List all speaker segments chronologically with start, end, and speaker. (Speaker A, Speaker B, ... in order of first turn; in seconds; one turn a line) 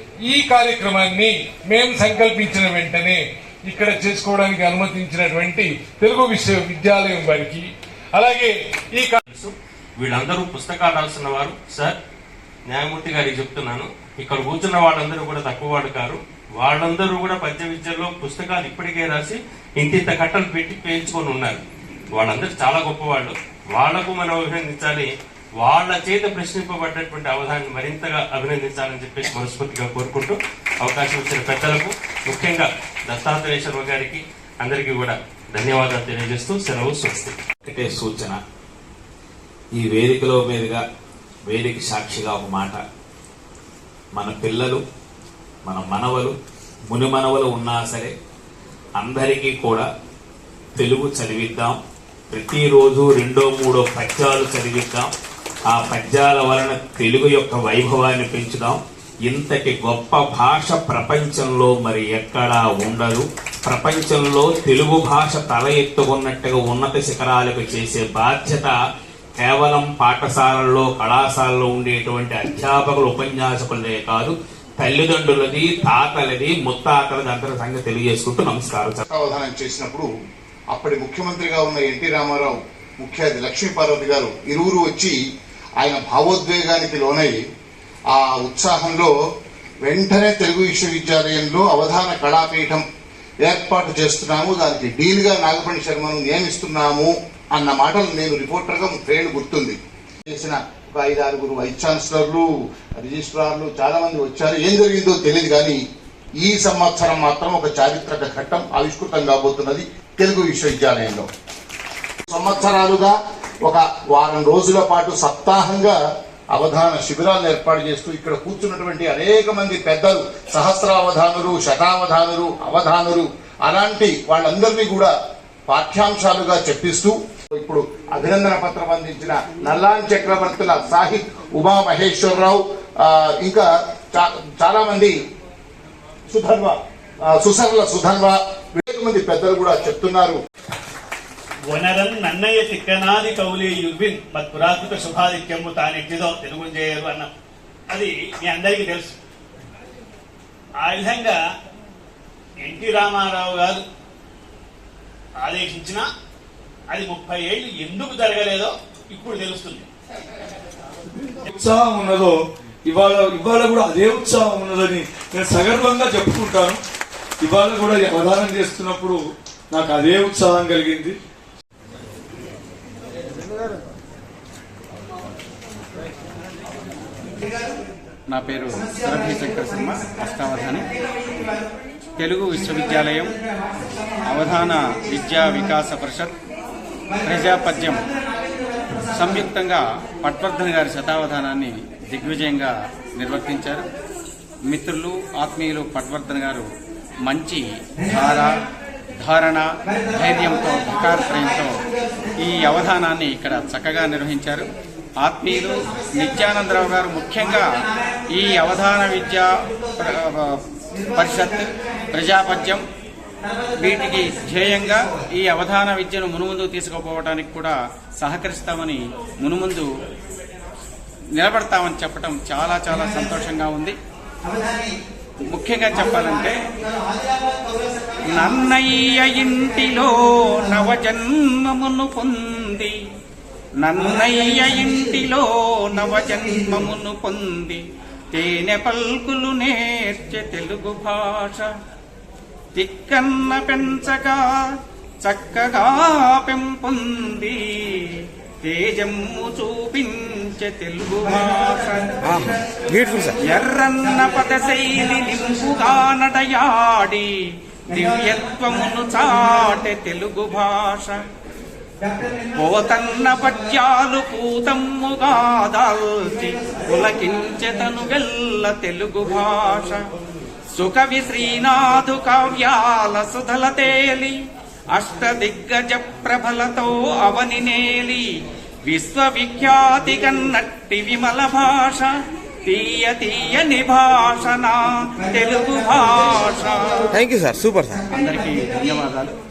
Speaker A: 0.2-9.2
Speaker B: 9.3-12.0
Speaker B: 12.7-21.6
Speaker B: 22.1-25.1
Speaker B: 25.6-37.4
Speaker C: 37.6-38.4
Speaker C: 39.8-40.8
Speaker C: 41.5-42.8
Speaker C: 44.1-44.8
Speaker C: 45.6-46.4
Speaker C: 46.9-48.1
Speaker C: 49.0-49.9
Speaker C: 50.8-51.8
Speaker C: 52.3-55.1
Speaker C: 55.7-68.8
Speaker C: 69.4-79.0
Speaker D: 79.1-80.1
Speaker D: 80.7-85.2
Speaker D: 85.8-87.4
Speaker D: 88.1-89.1
Speaker D: 89.8-92.8
Speaker D: 93.4-102.5
Speaker D: 103.0-105.8
Speaker D: 106.4-111.3
Speaker D: 112.3-116.0
Speaker D: 116.5-125.1
Speaker D: 125.7-135.2
Speaker D: 136.3-136.8
Speaker D: 137.4-140.4
Speaker E: 141.7-147.3
Speaker E: 147.9-149.2
Speaker E: 150.8-151.4
Speaker E: 152.6-153.8
Speaker E: 155.4-156.1
Speaker E: 156.9-159.9
Speaker F: 161.5-162.4
Speaker F: 162.9-166.8
Speaker F: 167.4-169.2
Speaker F: 169.7-171.2
Speaker G: 178.3-180.9
Speaker G: 182.2-183.4
Speaker G: 184.3-186.3
Speaker G: 187.2-188.1
Speaker G: 189.1-193.8
Speaker G: 194.7-196.7
Speaker G: 197.2-198.5
Speaker G: 199.2-201.8
Speaker G: 202.4-204.7
Speaker G: 205.2-207.7
Speaker G: 208.3-212.8
Speaker G: 213.8-219.9
Speaker G: 221.4-224.0
Speaker G: 225.5-226.6
Speaker G: 228.3-233.0
Speaker G: 233.8-237.8
Speaker G: 238.3-241.7
Speaker G: 242.8-252.2
Speaker H: 252.2-253.4
Speaker G: 253.4-257.3
Speaker G: 257.9-261.2
Speaker G: 262.4-270.0
Speaker G: 270.7-274.4
Speaker G: 274.9-278.3
Speaker G: 278.9-282.1
Speaker G: 282.6-287.0
Speaker H: 287.1-288.0
Speaker G: 288.1-289.4